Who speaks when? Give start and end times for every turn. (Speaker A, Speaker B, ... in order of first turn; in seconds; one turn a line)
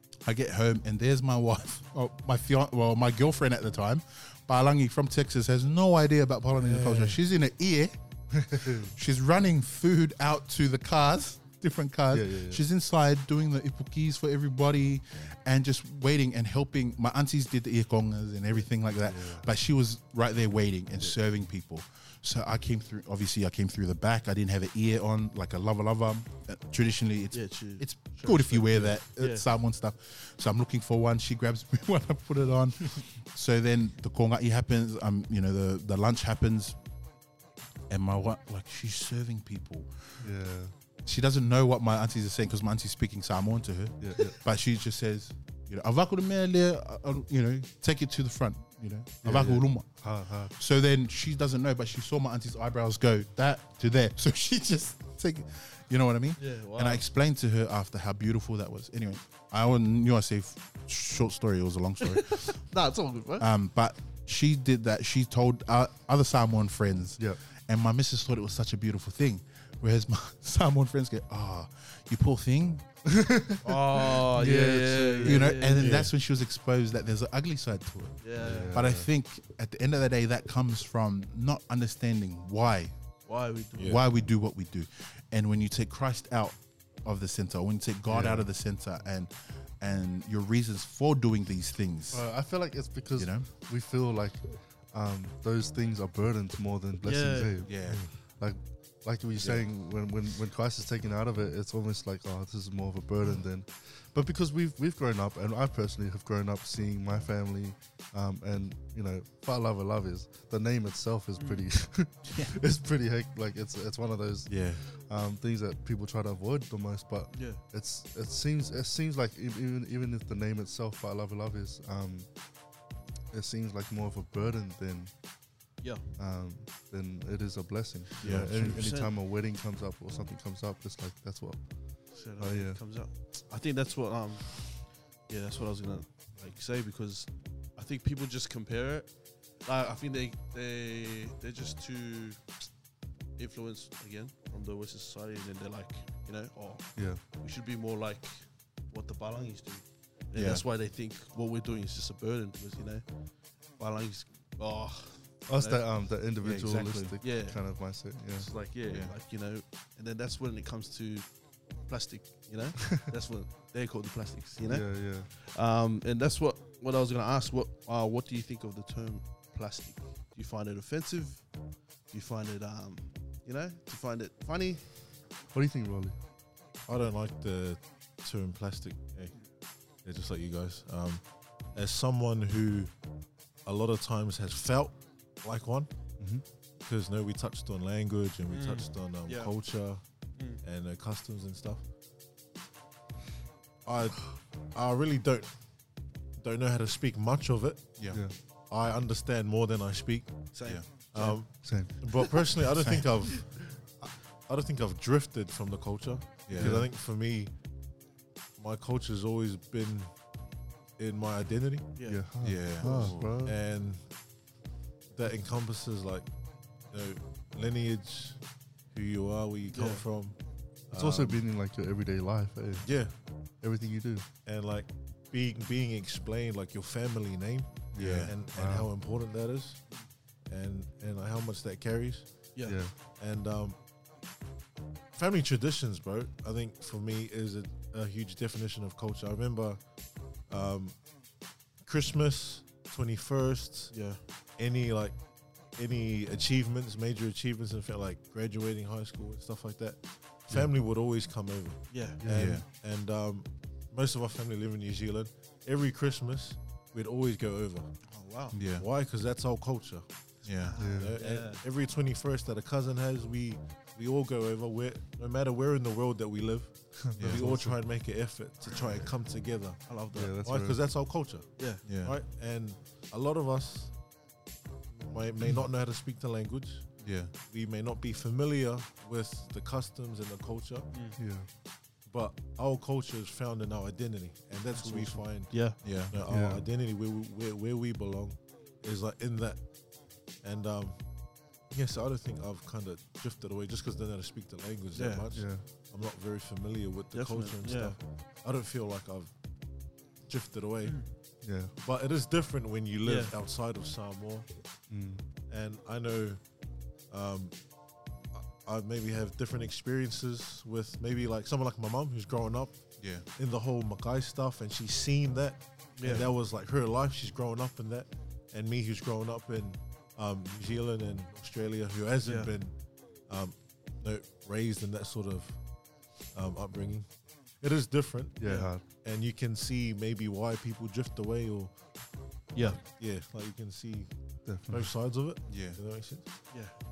Speaker A: 0.2-36.8
Speaker B: 6.5-7.2
Speaker C: 8.3-8.9
Speaker C: 12.1-12.6
Speaker C: 19.0-19.5
Speaker D: 27.3-29.4
Speaker A: 37.9-40.3
Speaker C: 40.2-40.7
Speaker A: 41.1-62.6
Speaker C: 44.0-44.4
Speaker C: 49.2-50.5
Speaker D: 56.4-57.0
Speaker D: 62.0-63.5
Speaker A: 63.4-72.8
Speaker C: 73.1-75.5
Speaker D: 73.6-75.9
Speaker A: 75.2-82.9
Speaker B: 75.8-76.1
Speaker D: 78.2-78.8
Speaker C: 78.4-79.1
Speaker D: 83.3-83.9
Speaker A: 83.8-92.3
Speaker C: 88.1-88.5
Speaker C: 92.1-122.3
Speaker A: 93.2-93.5
Speaker D: 97.0-97.6
Speaker A: 97.6-98.0
Speaker B: 97.9-98.1
Speaker D: 111.4-111.7
Speaker A: 114.5-114.8
Speaker D: 117.3-117.6
Speaker C: 123.3-125.1
Speaker D: 125.8-126.1
Speaker C: 126.2-132.8
Speaker A: 128.2-128.8
Speaker D: 128.3-129.1
Speaker D: 132.1-142.6
Speaker D: 143.4-153.1
Speaker C: 147.0-147.2
Speaker A: 150.3-150.6
Speaker D: 153.7-155.9
Speaker C: 155.5-158.5
Speaker A: 156.4-157.2
Speaker D: 157.2-174.8
Speaker A: 158.9-159.1
Speaker C: 164.6-165.3
Speaker C: 175.5-176.2
Speaker B: 176.9-179.3
Speaker B: 180.0-182.9
Speaker B: 183.6-185.9
Speaker C: 186.2-186.4
Speaker B: 186.8-190.1
Speaker D: 188.5-189.5
Speaker B: 190.6-191.8
Speaker B: 193.9-195.7
Speaker B: 196.4-198.1
Speaker A: 198.0-198.3
Speaker B: 198.7-207.5
Speaker D: 200.5-202.3
Speaker C: 201.6-201.9
Speaker A: 206.5-206.8
Speaker C: 206.6-206.9
Speaker B: 208.6-210.3
Speaker B: 211.0-211.9
Speaker D: 211.9-212.2
Speaker C: 212.1-213.6
Speaker A: 212.4-213.3
Speaker B: 212.8-214.1
Speaker D: 212.9-213.2
Speaker B: 215.1-216.3
Speaker B: 216.8-221.4
Speaker D: 219.7-220.0
Speaker C: 220.9-223.1
Speaker B: 222.8-223.1
Speaker C: 223.6-224.3
Speaker B: 224.4-232.6
Speaker C: 227.9-228.9
Speaker A: 227.9-228.3
Speaker D: 232.5-232.8
Speaker C: 232.7-232.9
Speaker B: 233.2-233.8
Speaker B: 235.1-241.1
Speaker B: 241.8-257.9
Speaker D: 243.9-244.2
Speaker D: 251.9-252.2
Speaker C: 252.2-252.5
Speaker A: 252.3-252.7
Speaker D: 258.1-258.6
Speaker A: 258.5-258.9
Speaker B: 258.8-274.0
Speaker A: 260.4-260.8
Speaker D: 260.6-261.6
Speaker C: 260.8-261.1
Speaker C: 267.1-267.8
Speaker A: 267.1-267.5
Speaker D: 269.8-270.4
Speaker C: 270.1-270.8
Speaker D: 271.6-271.8
Speaker A: 271.8-272.2
Speaker B: 275.0-280.9
Speaker A: 277.0-277.3
Speaker D: 280.9-281.2
Speaker C: 281.2-281.5
Speaker B: 282.1-304.5
Speaker D: 284.7-285.8
Speaker A: 285.7-286.2
Speaker C: 286.3-286.6
Speaker D: 294.9-295.2
Speaker C: 295.3-295.6
Speaker D: 297.1-298.0
Speaker D: 300.8-301.1
Speaker C: 301.4-301.7
Speaker D: 303.0-303.3
Speaker C: 304.9-305.2
Speaker B: 305.5-307.8
Speaker B: 308.3-336.3
Speaker A: 313.0-313.3
Speaker D: 316.0-316.3
Speaker D: 322.2-322.5
Speaker C: 328.4-328.8
Speaker D: 328.4-328.7
Speaker D: 332.5-332.8
Speaker C: 334.4-334.9
Speaker A: 335.5-335.8